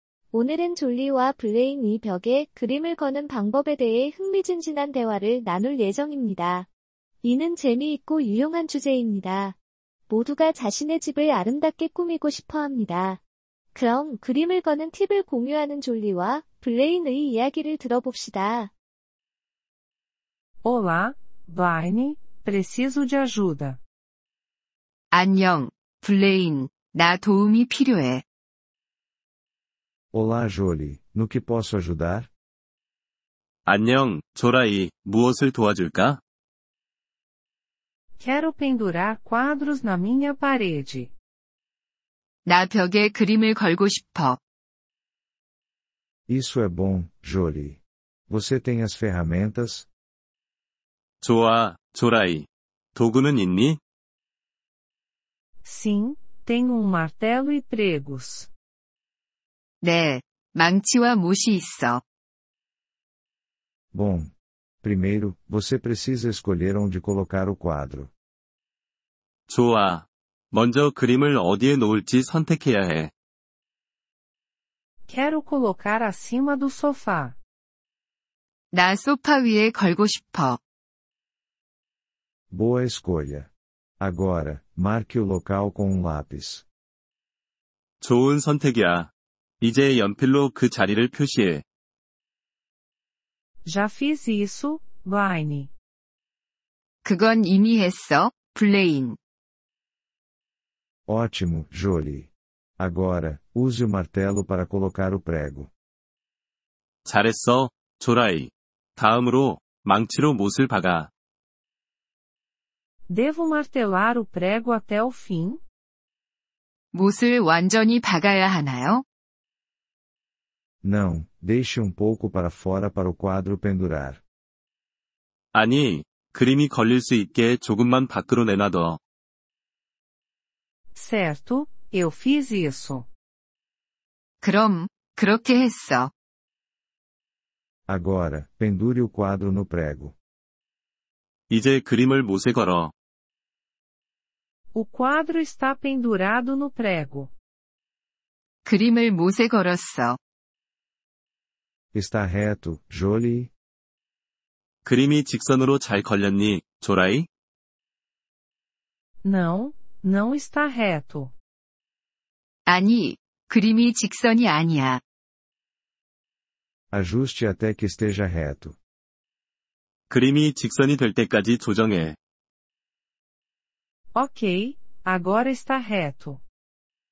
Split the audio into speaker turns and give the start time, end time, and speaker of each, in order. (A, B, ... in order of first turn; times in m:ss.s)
0:00.3-0:06.7 A
0:07.2-0:09.6 A
0:10.1-0:13.2 A
0:13.7-0:18.7 A
0:20.6-0:23.8 B
0:25.1-0:28.2 C
0:30.1-0:32.3 D
0:33.7-0:36.2 E
0:38.2-0:41.1 B
0:42.5-0:44.4 C
0:46.3-0:49.9 D
0:51.2-0:53.8 E
0:55.6-0:58.5 B
0:59.8-1:02.0 C
1:03.9-1:08.1 D
1:09.5-1:13.1 E
1:15.1-1:17.4 B
1:18.7-1:20.6 C
1:22.5-1:23.5 D
1:24.0-1:26.6 D
1:28.0-1:31.6 E
1:33.6-1:35.7 B
1:37.0-1:39.2 C
1:41.1-1:45.7 D
1:47.1-1:51.1 E
1:53.1-1:55.6 B
1:56.9-1:59.0 C
2:00.8-2:04.2 D
2:05.5-2:09.0 E
2:11.0-2:13.1 B
2:14.4-2:16.1 C
2:17.9-2:20.2 D
2:21.5-2:22.9 E
2:24.7-2:27.3 B
2:28.6-2:30.2 C
2:31.9-2:33.5 D
2:34.8-2:37.3 E
2:39.2-2:41.3 B
2:42.7-2:45.0 C
2:46.9-2:48.8 D
2:50.1-2:52.2 E
2:54.2-2:56.4 B